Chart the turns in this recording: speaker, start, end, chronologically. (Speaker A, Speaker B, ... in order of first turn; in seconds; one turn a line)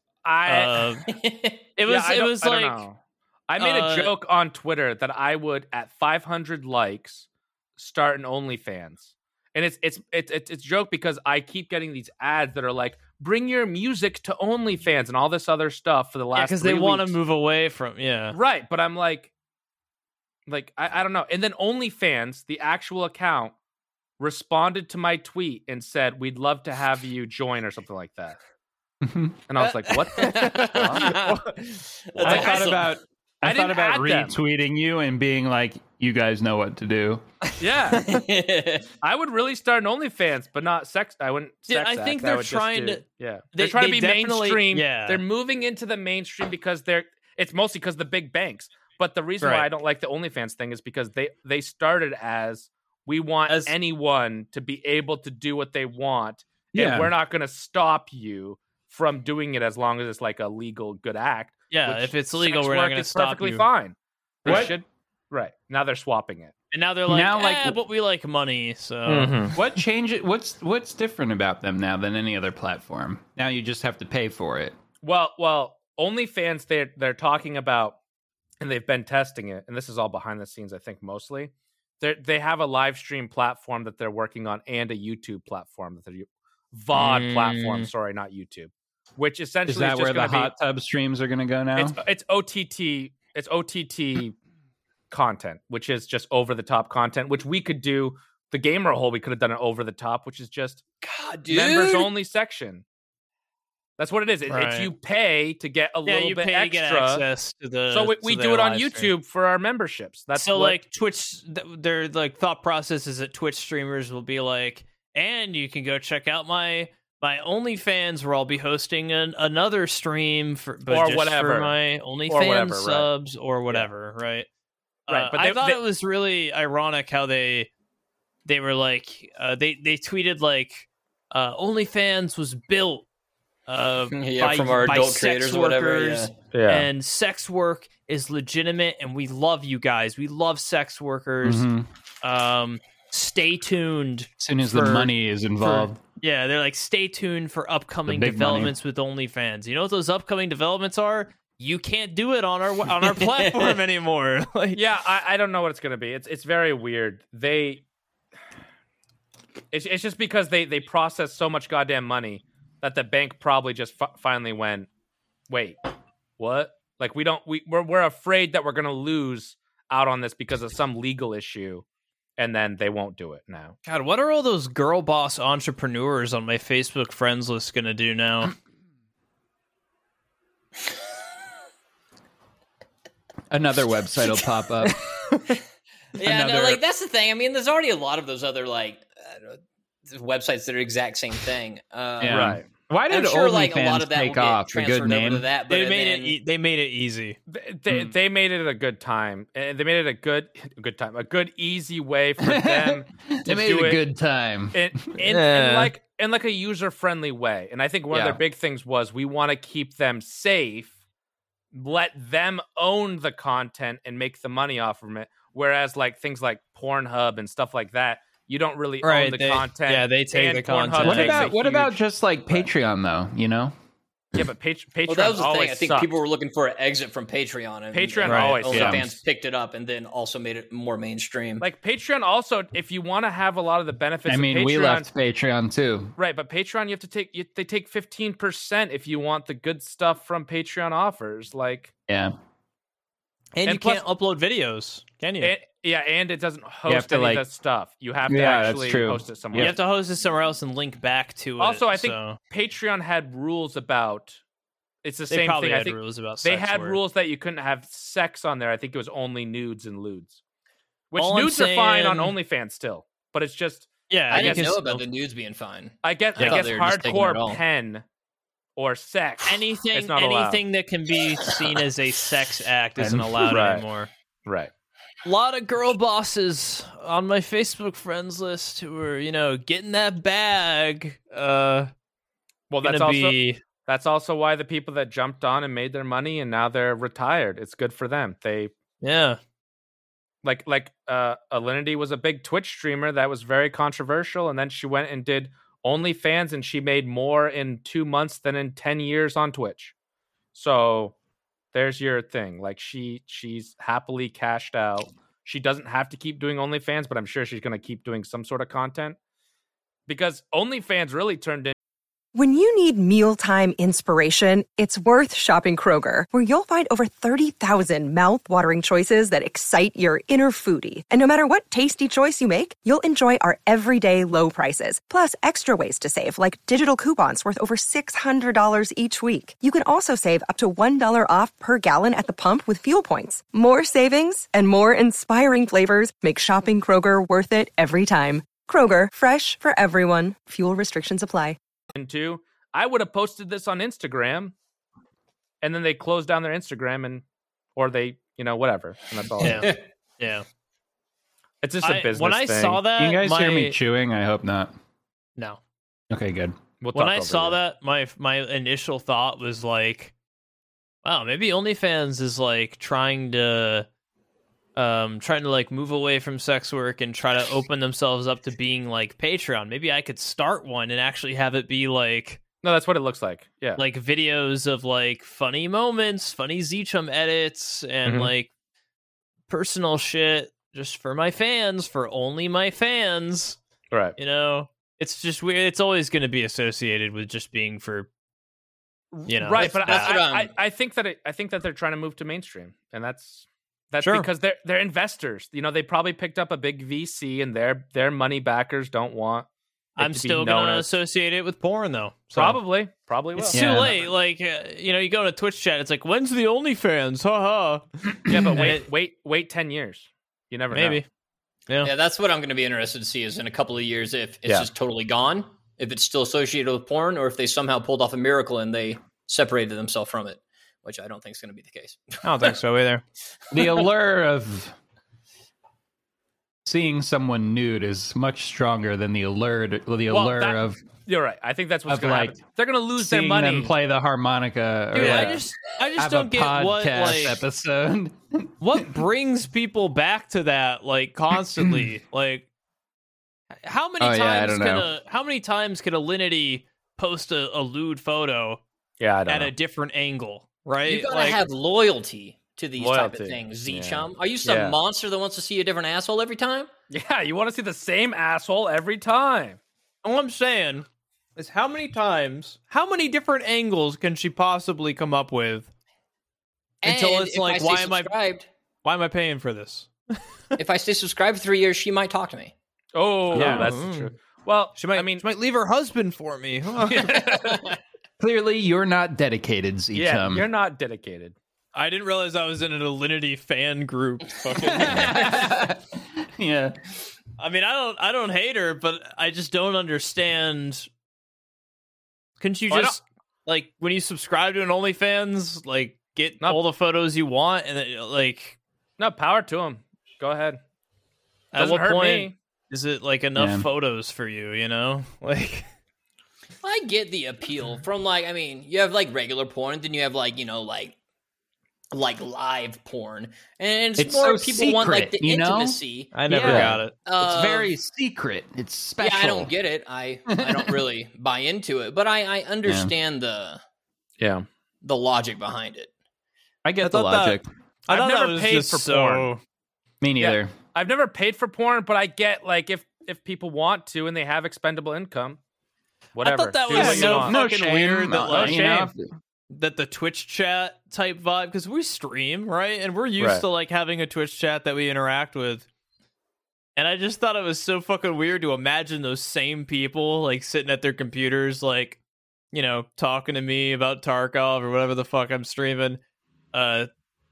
Speaker A: 0.2-0.9
Speaker B: 0.5-1.1
Speaker C: 1.1-1.6
Speaker B: 1.8-2.8
Speaker A: 1.9-17.2
Speaker B: 3.6-4.1
Speaker B: 16.3-18.4
Speaker A: 18.3-19.3
Speaker A: 20.5-23.6
Speaker A: 24.2-28.4
Speaker D: 29.0-29.4
Speaker A: 29.5-31.3
Speaker B: 29.6-32.8
Speaker C: 30.2-31.4
Speaker D: 30.7-31.1
Speaker C: 32.1-32.8
Speaker A: 32.2-32.8
Speaker D: 32.2-37.2
Speaker A: 33.4-34.3
Speaker A: 37.6-38.2
Speaker C: 38.0-38.9
Speaker A: 39.0-66.5
Speaker B: 41.7-43.0
Speaker B: 43.5-45.2
Speaker B: 49.4-49.7
Speaker B: 53.5-53.7
Speaker D: 56.7-57.1
Speaker B: 61.7-63.7
Speaker D: 64.5-64.8
Speaker B: 66.7-69.5
Speaker D: 67.1-67.8
Speaker A: 69.1-69.6
Speaker D: 69.5-74.8
Speaker A: 75.0-78.0
Speaker A: 78.6-90.5
Speaker B: 86.9-87.9
Speaker D: 89.7-92.0
Speaker A: 91.8-94.3
Speaker A: 95.1-100.8
Speaker C: 101.0-102.1
Speaker A: 101.5-102.8
Speaker A: 104.0-107.3
Speaker B: 104.5-104.9
Speaker B: 106.1-109.1
Speaker A: 107.9-110.8
Speaker B: 110.3-124.5
Speaker A: 120.9-123.1
Speaker B: 125.1-127.7
Speaker A: 125.1-125.8
Speaker B: 128.5-133.1
Speaker B: 133.7-141.7
Speaker C: 134.1-136.3
Speaker A: 136.5-136.9
Speaker D: 141.4-141.9
Speaker B: 142.2-154.8
Speaker D: 144.4-146.0
Speaker D: 148.1-148.7
Speaker C: 153.4-153.7
Speaker A: 154.7-157.8
Speaker A: 159.7-164.9
Speaker A: 165.5-165.8
Speaker A: 166.4-171.8
Speaker A: 172.4-173.8
Speaker B: 173.8-178.5
Speaker D: 183.5-185.0
Speaker C: 186.2-196.4
Speaker D: 186.2-186.8
Speaker D: 192.2-195.5
Speaker A: 192.3-192.7
Speaker B: 195.7-197.4
Speaker A: 197.5-204.0
Speaker D: 202.4-204.9
Speaker A: 204.7-210.9
Speaker B: 205.2-205.9
Speaker D: 208.1-208.4
Speaker A: 211.7-221.9
Speaker B: 219.0-221.6
Speaker D: 221.0-223.7
Speaker A: 224.3-226.1
Speaker C: 225.1-231.7
Speaker A: 227.9-229.2
Speaker B: 228.2-228.7
Speaker D: 228.7-229.1
Speaker A: 231.6-235.1
Speaker D: 234.3-236.2
Speaker A: 236.2-241.9
Speaker D: 242.1-242.3
Speaker B: 243.6-245.6
Speaker A: 243.7-244.0
Speaker A: 245.4-249.8
Speaker D: 246.9-247.4
Speaker D: 248.3-249.8
Speaker B: 249.6-252.4
Speaker A: 251.6-254.4
Speaker A: 255.0-260.4
Speaker B: 255.3-257.0
Speaker A: 261.1-264.8
Speaker B: 261.2-262.3
Speaker B: 264.1-265.0
Speaker C: 264.3-267.6
Speaker A: 266.0-268.1
Speaker A: 268.8-270.6
Speaker B: 269.4-274.1
Speaker D: 273.0-273.5
Speaker A: 273.5-273.9
Speaker A: 274.5-274.7
Speaker B: 275.2-281.9
Speaker A: 282.7-288.7
Speaker B: 282.8-283.6
Speaker B: 289.0-289.4
Speaker A: 290.4-299.9
Speaker A: 300.5-301.1
Speaker A: 301.7-309.2
Speaker A: 310.1-311.8
Speaker E: 312.4-341.6
Speaker A: 341.9-344.5
Speaker A: 345.6-347.2
Speaker A: 347.8-349.8
Speaker B: 349.4-350.5
Speaker C: 349.4-349.8
Speaker A: 351.6-352.8
Speaker B: 351.8-353.8
Speaker D: 353.0-354.7
Speaker D: 356.1-356.6
Speaker A: 356.8-357.6
Speaker B: 356.9-360.1
Speaker B: 361.0-363.9
Speaker B: 364.8-372.4
Speaker A: 372.6-373.8
Speaker B: 373.8-378.5
Speaker A: 378.1-378.3
Speaker B: 379.5-383.6
Speaker A: 383.9-384.2
Speaker B: 384.2-388.1
Speaker A: 389.1-399.5
Speaker B: 389.3-390.1
Speaker C: 389.6-390.5
Speaker B: 394.0-394.3
Speaker B: 400.0-402.6
Speaker A: 400.0-400.9
Speaker A: 402.4-404.1
Speaker B: 403.4-408.9
Speaker D: 403.5-403.9
Speaker A: 408.3-411.0
Speaker B: 410.7-411.1
Speaker C: 411.8-422.5
Speaker B: 422.2-423.0
Speaker D: 423.5-424.8
Speaker C: 423.6-423.9
Speaker D: 426.6-430.8
Speaker A: 430.1-433.7
Speaker D: 431.9-432.4
Speaker D: 433.0-438.5
Speaker B: 434.9-437.4
Speaker A: 435.0-435.4
Speaker B: 438.6-442.5
Speaker D: 441.6-441.9
Speaker B: 443.6-448.6
Speaker D: 444.0-444.9
Speaker A: 449.0-449.5
Speaker B: 449.3-451.4
Speaker C: 450.9-456.7
Speaker A: 452.8-454.8
Speaker A: 456.9-459.6
Speaker B: 460.0-465.7
Speaker C: 466.8-468.5
Speaker B: 466.8-468.1
Speaker B: 468.8-470.6
Speaker C: 470.6-472.5
Speaker A: 472.9-475.2
Speaker D: 473.3-473.7
Speaker B: 473.3-474.1
Speaker B: 474.8-477.5
Speaker A: 476.9-477.8
Speaker D: 478.2-480.5
Speaker A: 479.9-481.4
Speaker B: 481.8-485.4
Speaker C: 484.6-485.4
Speaker D: 484.7-486.8
Speaker B: 487.4-490.9
Speaker B: 492.4-498.6
Speaker A: 492.7-493.0
Speaker A: 499.0-500.6
Speaker B: 501.5-505.7
Speaker A: 501.6-502.4
Speaker D: 503.4-503.7
Speaker C: 506.6-511.0
Speaker C: 511.9-517.7
Speaker D: 514.0-519.5
Speaker B: 516.1-516.9
Speaker A: 516.5-516.7
Speaker C: 519.0-523.6
Speaker D: 520.3-520.9
Speaker D: 522.6-522.9
Speaker A: 524.2-524.5
Speaker C: 524.8-525.9
Speaker D: 526.6-527.5
Speaker B: 526.8-529.4
Speaker A: 527.9-529.3
Speaker D: 530.0-530.5
Speaker A: 530.2-535.4
Speaker A: 536.1-537.4
Speaker B: 536.2-538.7
Speaker D: 536.7-539.1
Speaker A: 538.2-538.9
Speaker B: 539.5-545.7
Speaker B: 546.8-552.0
Speaker B: 552.5-556.0
Speaker B: 556.5-556.9